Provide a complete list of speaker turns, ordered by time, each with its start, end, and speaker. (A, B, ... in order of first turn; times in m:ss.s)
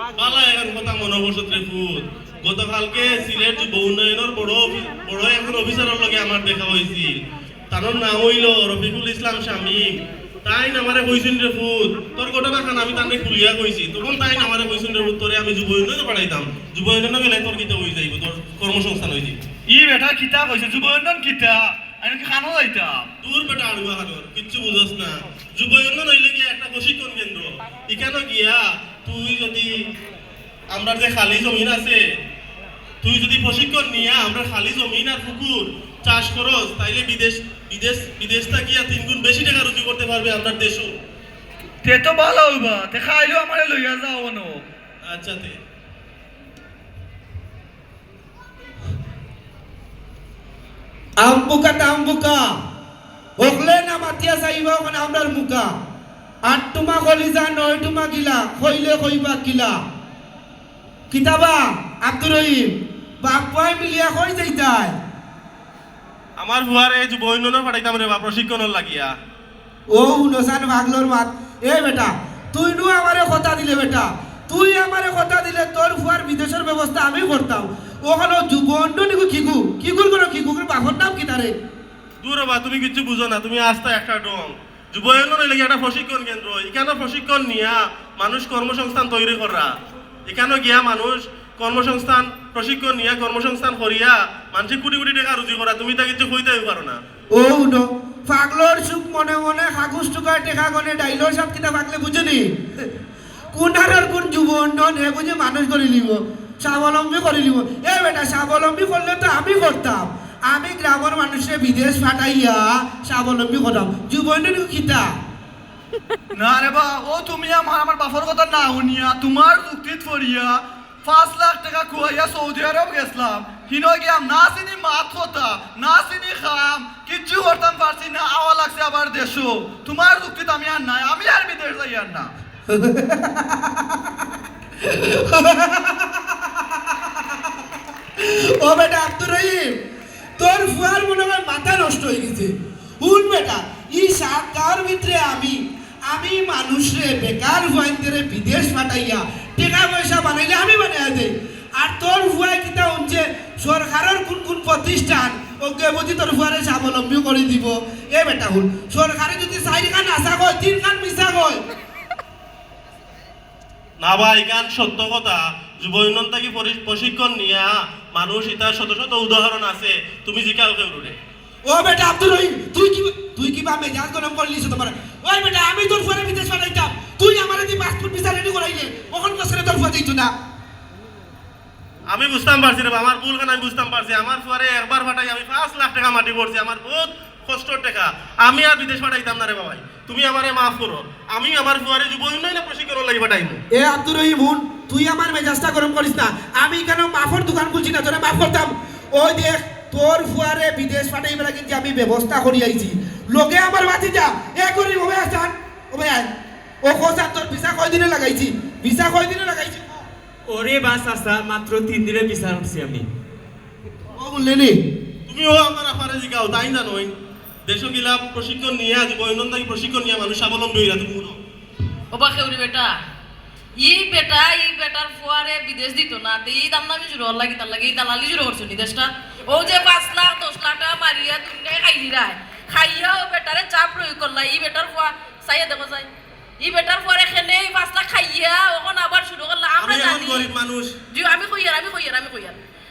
0:00.2-0:07.1 A
0:07.7-0:09.9 A
0:10.4-0:19.4 A
0:19.7-0:23.1 B
0:23.2-0:29.7 A
0:30.7-0:32.0 A
0:33.0-0:40.9 A
0:41.8-0:44.6 B
0:45.0-0:45.6 A
0:51.2-0:52.5 C
0:53.4-0:55.7 C
0:56.4-0:59.8 C
1:01.1-1:02.7 C
1:03.2-1:05.0 C
1:06.4-1:09.1 A
1:09.9-1:21.5 C
1:22.2-1:29.7 A
1:30.3-1:37.0 A
1:37.3-1:42.9 C
1:43.5-1:55.1 C
1:56.3-2:12.3 B
2:12.7-2:14.0 C
2:14.8-2:16.4 C
2:18.2-2:19.7 C
2:20.4-2:41.6 C
2:44.0-2:51.1 A
2:51.6-3:00.3 C
3:02.1-3:13.6 A
3:13.7-3:26.3 C
3:26.8-3:29.8 C
3:30.5-3:33.0 D
3:34.2-3:34.8 C
3:35.3-3:37.1 A
3:37.7-3:41.4 A
3:42.1-3:43.0 E
3:43.8-3:56.1 E
3:56.6-4:00.5 E
3:59.8-4:01.0 A
4:01.1-4:02.6 E